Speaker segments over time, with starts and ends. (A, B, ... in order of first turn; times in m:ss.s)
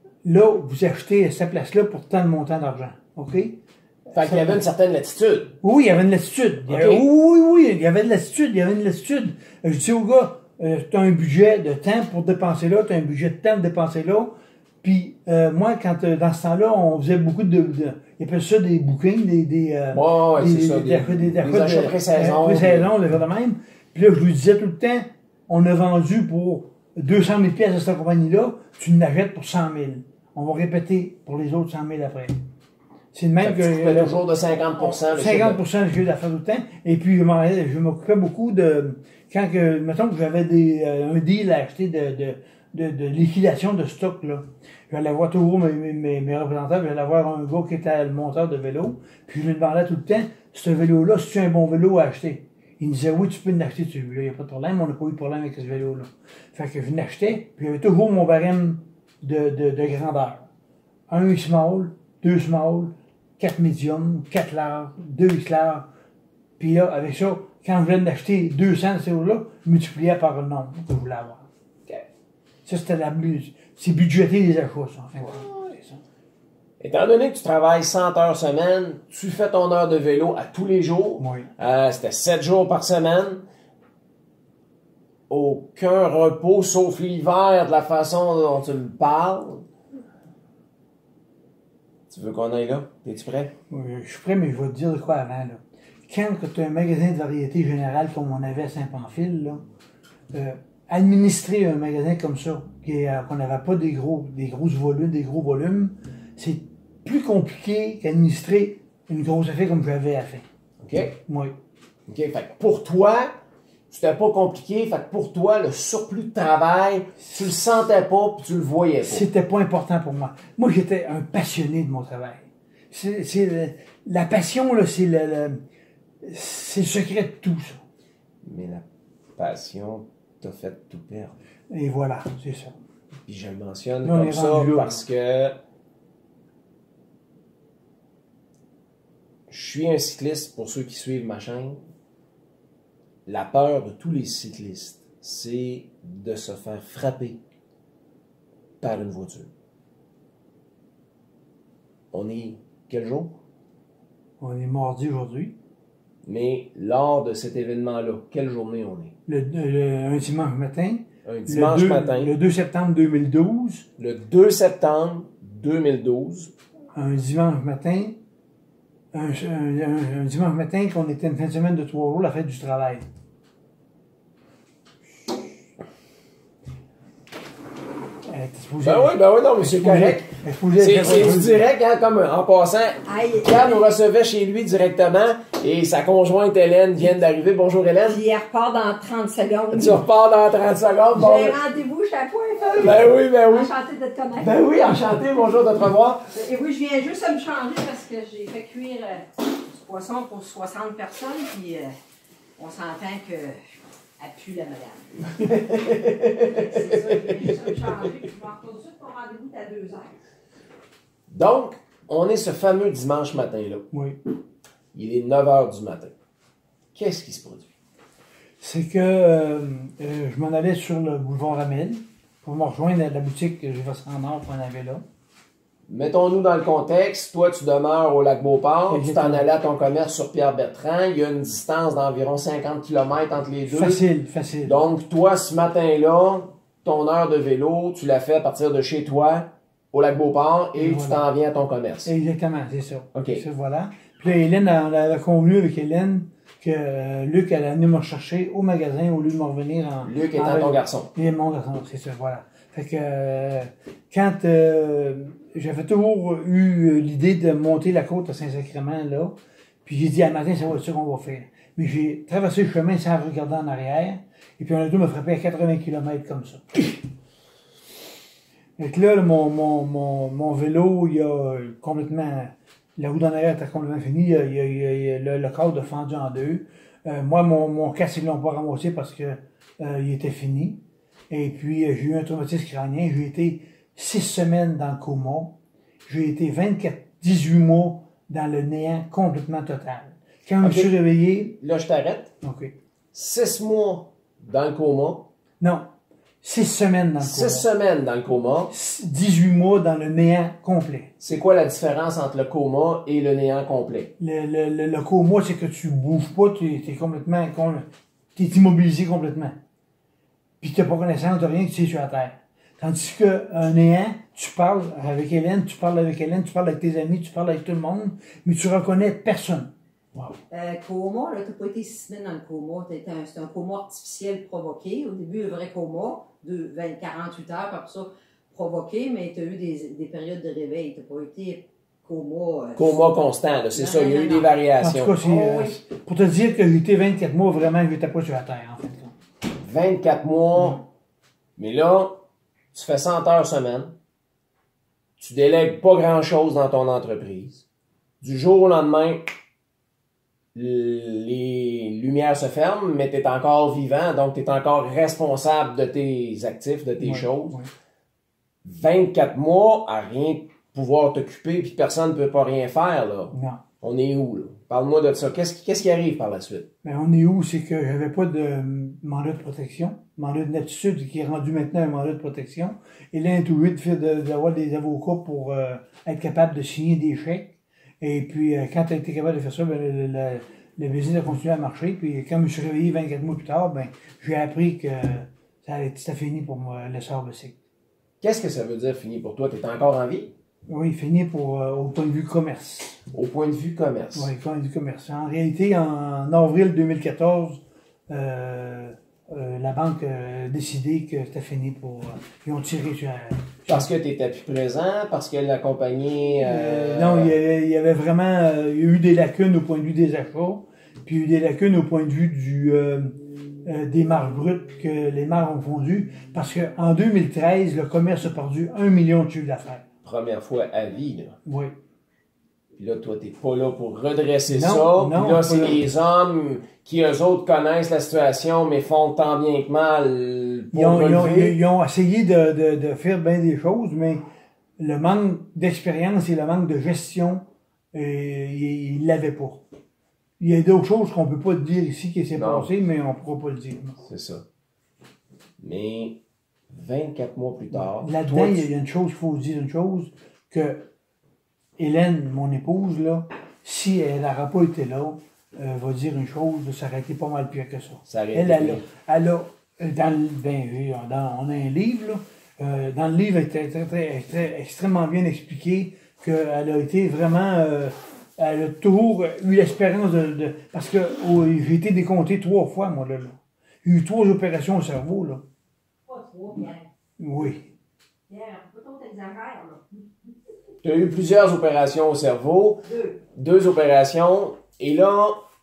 0:00.2-0:04.6 A
0:04.1-0:05.6 B
0:05.6-0:32.4 A
0:06.7-0:07.0 B
0:19.9-0:22.9 B
0:33.1-0:34.2 A
0:33.4-0:35.6 B
0:34.8-1:00.5 A
1:01.1-1:05.8 A
1:06.6-1:11.5 A
1:12.6-1:16.0 A
1:15.2-1:15.6 B
1:16.8-1:23.4 B
1:21.2-1:21.5 A
1:25.3-1:29.6 B
1:32.1-1:33.5 B
1:33.7-1:39.6 A
1:40.3-1:50.4 A
1:50.8-1:51.2 B
1:51.3-1:51.5 A
1:52.1-1:53.3 B
1:53.9-1:59.3 B
1:59.0-2:05.6 A
2:06.2-2:07.8 A
2:08.4-2:08.8 B
2:09.4-2:11.3 B
2:11.7-2:12.8 A
2:13.2-2:15.5 B
2:14.0-2:15.0 A
2:19.5-2:21.8 B
2:23.2-2:27.4 B
2:28.8-2:29.5 B
2:32.1-2:33.4 B
2:34.4-2:35.5 A
2:36.2-2:39.1 B
2:39.3-2:43.9 A
2:41.2-2:42.3 B
2:44.0-2:46.5 B
2:46.9-2:48.2 A
2:49.1-2:53.0 A
2:58.3-3:01.6 A
2:58.8-3:08.2 B
3:03.0-3:03.8 C
3:08.0-3:10.0 C
3:09.7-3:11.6 B
3:11.1-3:14.5 C
3:12.6-3:13.7 B
3:14.4-3:16.3 B
3:16.3-3:21.9 C
3:22.6-3:25.4 C
3:25.4-3:28.1 B
3:26.5-3:30.1 C
3:31.3-3:33.9 B
3:33.9-3:34.2 A
3:34.9-3:36.1 B
3:36.9-3:37.7 B
3:38.6-3:45.0 A
3:45.9-3:54.0 B
3:48.9-3:49.4 A
3:53.7-3:54.8 A
3:54.6-4:02.1 B
4:00.8-4:01.2 A
4:02.0-4:26.8 A
4:03.1-4:03.4 B
4:10.0-4:11.1 B
4:28.8-4:51.6 A
4:50.6-4:50.9 B
4:51.6-4:52.3 B
4:52.4-4:52.7 A
4:53.1-4:55.3 B
4:55.6-4:55.9 A
4:56.4-4:57.7 A
4:57.2-4:58.7 B
4:58.7-5:01.1 A
5:01.2-5:04.1 B
5:04.2-5:09.6 A
5:10.6-5:19.7 A
5:20.5-5:33.0 C
5:32.8-5:35.2 B
5:33.6-5:34.5 C
5:34.8-5:39.1 A
5:35.2-5:35.8 C
5:39.6-5:40.8 B
5:41.6-5:42.2 B
5:42.7-5:43.9 B
5:45.2-5:47.6 B
5:48.2-5:49.3 B
5:50.5-5:57.6 B
5:57.0-5:57.7 A
5:58.6-6:06.7 B
6:03.3-6:03.6 A
6:06.8-6:27.6 A
6:28.2-6:30.3 B
6:30.7-6:33.0 A
6:33.1-6:34.3 B
6:34.1-6:43.8 A
6:43.7-6:47.3 B
6:46.4-6:59.8 A
7:00.0-7:01.4 B
7:01.4-7:01.7 A
7:02.8-7:11.6 B
7:04.5-7:05.8 A
7:10.7-7:14.2 A
7:14.8-7:19.6 A
7:20.4-7:24.0 A
7:22.4-7:22.7 B
7:24.0-7:24.4 B
7:25.6-7:28.7 B
7:27.7-7:30.8 A
7:31.8-7:55.4 A
7:38.0-7:38.8 B
7:56.1-7:56.8 C
7:57.2-7:57.7 A
7:58.3-8:00.0 C
8:00.8-8:05.4 B